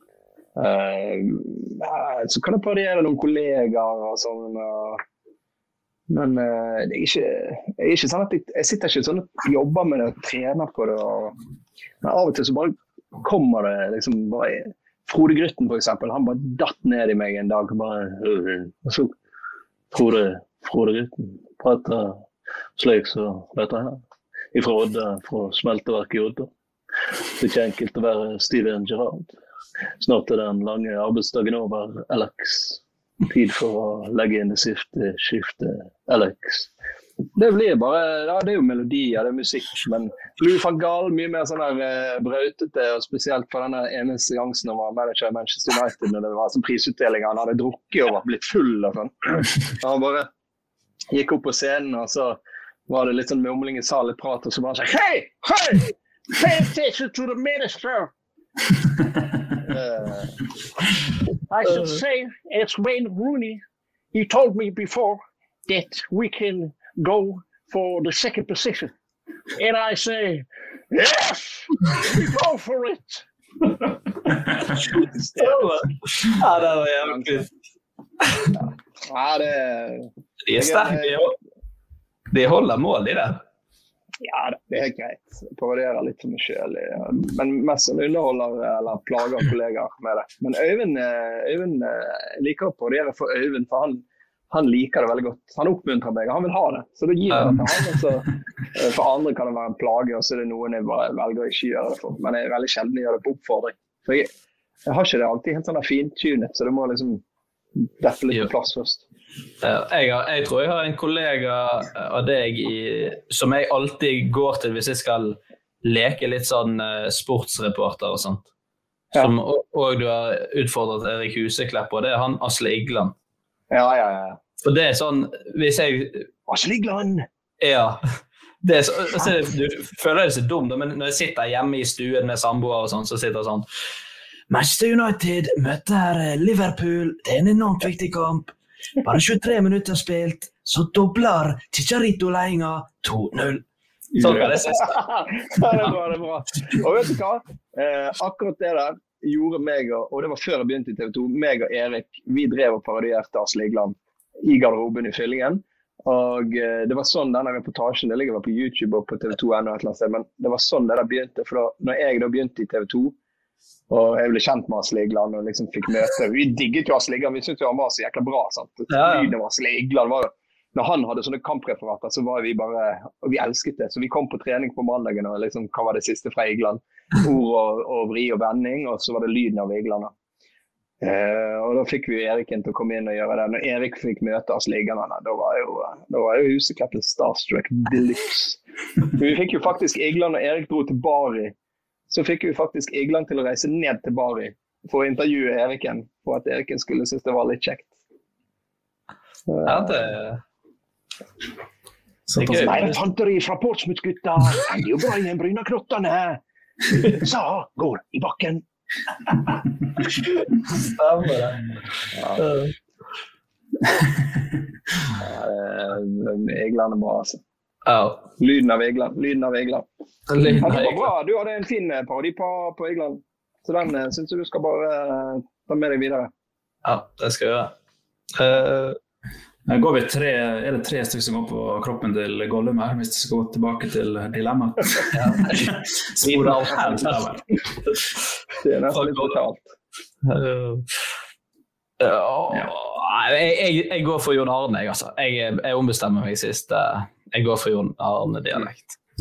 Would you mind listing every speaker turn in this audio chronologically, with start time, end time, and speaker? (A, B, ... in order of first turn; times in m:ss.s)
0:00.6-0:05.0 A
0:06.1-0:11.3 A
0:12.0-0:19.1 A
0:19.9-0:22.2 A
0:22.8-0:24.0 A
0:24.5-0:26.5 A
0:27.4-0:29.3 A
0:30.0-0:36.7 A
0:37.4-0:50.3 A
0:51.1-0:55.8 A
0:56.4-0:58.1 A
0:59.6-1:00.4 A
1:01.5-1:03.6 A
1:04.1-1:08.9 A
1:09.6-1:11.4 A
1:12.0-1:13.2 A
1:14.8-1:15.7 A
1:15.4-1:17.5 B
1:17.0-1:17.4 A
1:18.2-1:18.5 B
1:19.0-1:21.2 A
1:20.4-1:21.3 B
1:22.3-1:23.4 B
1:24.2-1:44.3 A
1:37.4-1:37.8 C
1:44.9-1:47.2 A
1:47.8-1:49.0 A
1:49.6-1:58.4 B
1:59.2-2:03.1 B
2:03.7-2:04.4 A
2:04.6-2:06.3 B
2:06.5-2:07.2 A
2:07.6-2:08.0 B
2:08.6-2:13.6 B
2:14.5-2:23.6 B
2:24.1-2:24.9 C
2:24.2-2:25.0 B
2:24.8-2:43.1 A
2:43.9-3:00.1 A
2:48.9-2:49.3 B
3:01.0-3:08.6 A
3:09.2-3:11.5 A
3:12.1-3:17.9 A
3:19.5-3:20.1 A
3:19.6-3:20.4 B
3:22.3-3:22.9 C
3:22.4-3:23.0 B
3:22.4-3:26.4 A
3:27.0-3:28.6 A
3:30.8-3:31.7 B
3:32.1-3:32.4 A
3:32.4-3:32.7 B
3:35.2-3:37.4 A
3:37.8-3:38.2 B
3:38.4-3:39.8 A
3:40.3-3:41.1 B
3:40.5-3:46.3 A
3:46.8-3:47.7 B
3:48.4-3:49.0 B
3:49.7-3:57.6 C
3:55.1-3:57.2 B
3:58.6-3:59.7 A
3:58.9-3:59.4 B
4:00.2-4:01.0 B
4:02.0-4:08.9 B